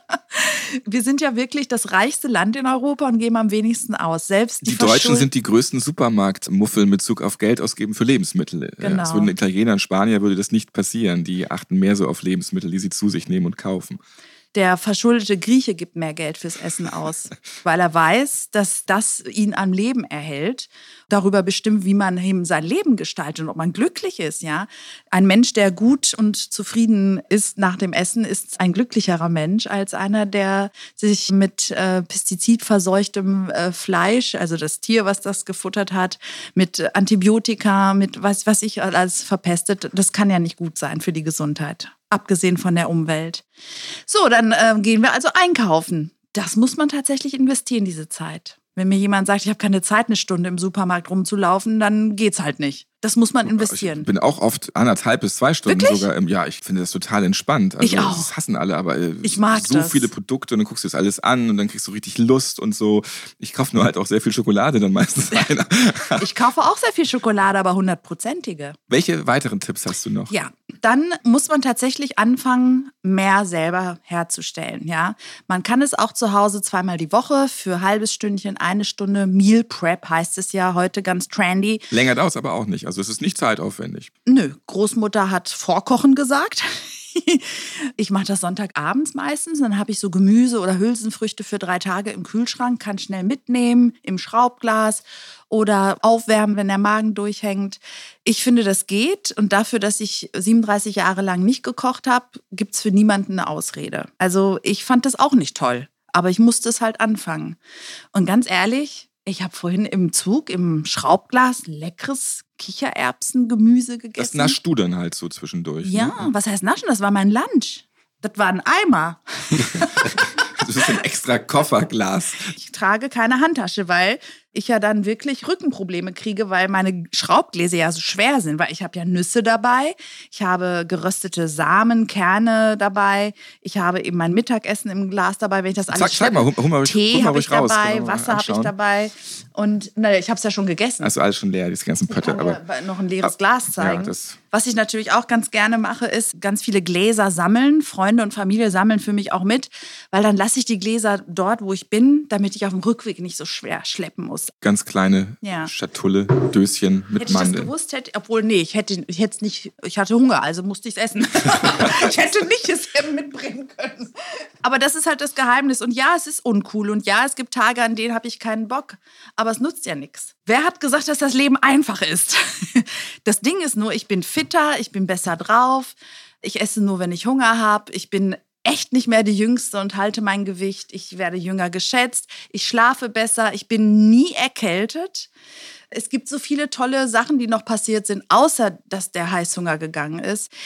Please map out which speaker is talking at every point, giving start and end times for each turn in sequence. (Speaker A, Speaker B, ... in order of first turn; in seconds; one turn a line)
Speaker A: 0.3-5.3
Speaker B: 4.6-14.0
Speaker A: 8.8-9.3
Speaker A: 14.5-43.4
Speaker A: 44.1-54.1
Speaker B: 53.5-66.2
Speaker A: 55.6-56.1
Speaker A: 57.8-58.3
Speaker A: 59.2-60.1
Speaker A: 66.2-68.8
Speaker B: 68.9-70.3
Speaker A: 70.3-81.9
Speaker B: 81.9-84.1
Speaker A: 84.2-107.6
Speaker A: 108.1-114.6
Speaker B: 114.2-116.3
Speaker A: 115.8-120.1
Speaker B: 120.6-122.5
Speaker A: 122.5-141.1
Speaker B: 135.9-138.7
Speaker B: 141.0-142.6
Speaker A: 142.1-154.5
Speaker B: 143.2-144.4
Speaker B: 154.6-157.7
Speaker A: 155.4-155.7
Speaker A: 157.2-164.1
Speaker A: 164.6-185.3
Speaker A: 185.9-190.5